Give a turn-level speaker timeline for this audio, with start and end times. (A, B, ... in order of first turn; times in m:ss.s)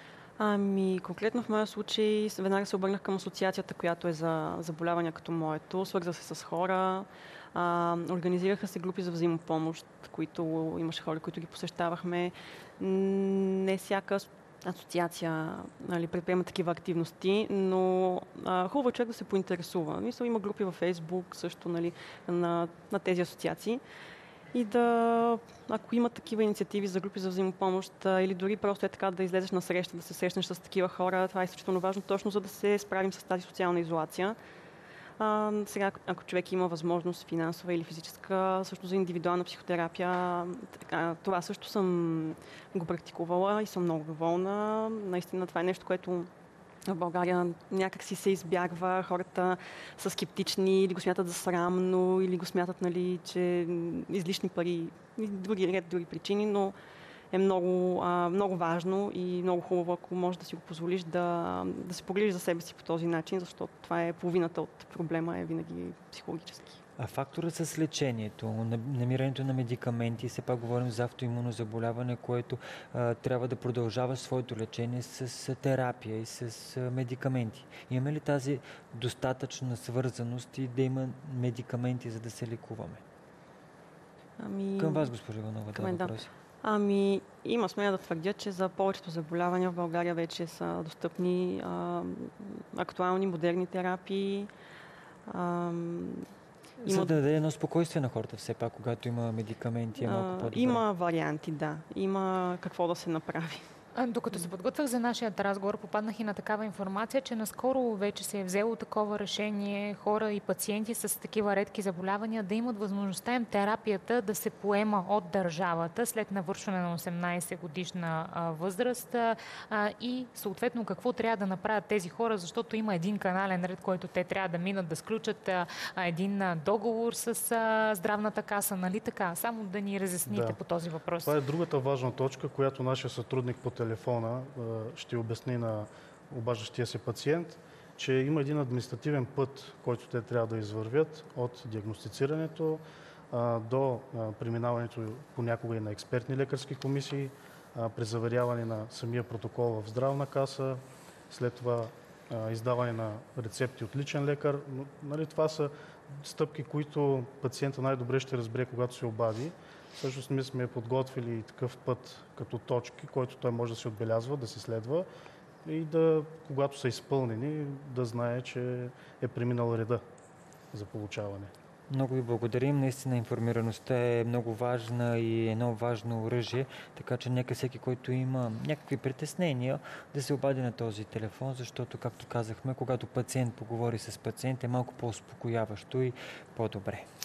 0:00.4-0:23.8 A
0:24.5-0:34.4 A
0:35.2-0:46.3 A
0:46.9-0:56.7 A
0:57.3-1:06.8 A
1:07.0-1:23.0 B
1:24.4-1:25.1 A
1:24.8-1:26.3 B
1:25.7-1:34.5 A
1:35.3-1:36.2 A
1:36.8-1:40.8 B
1:36.8-1:37.2 A
1:40.0-1:43.6 A
1:43.9-2:11.3 C
2:10.2-2:10.6 D
2:11.2-2:45.1 D
2:45.6-2:50.0 D
2:50.7-2:51.5 D
2:51.9-3:07.0 B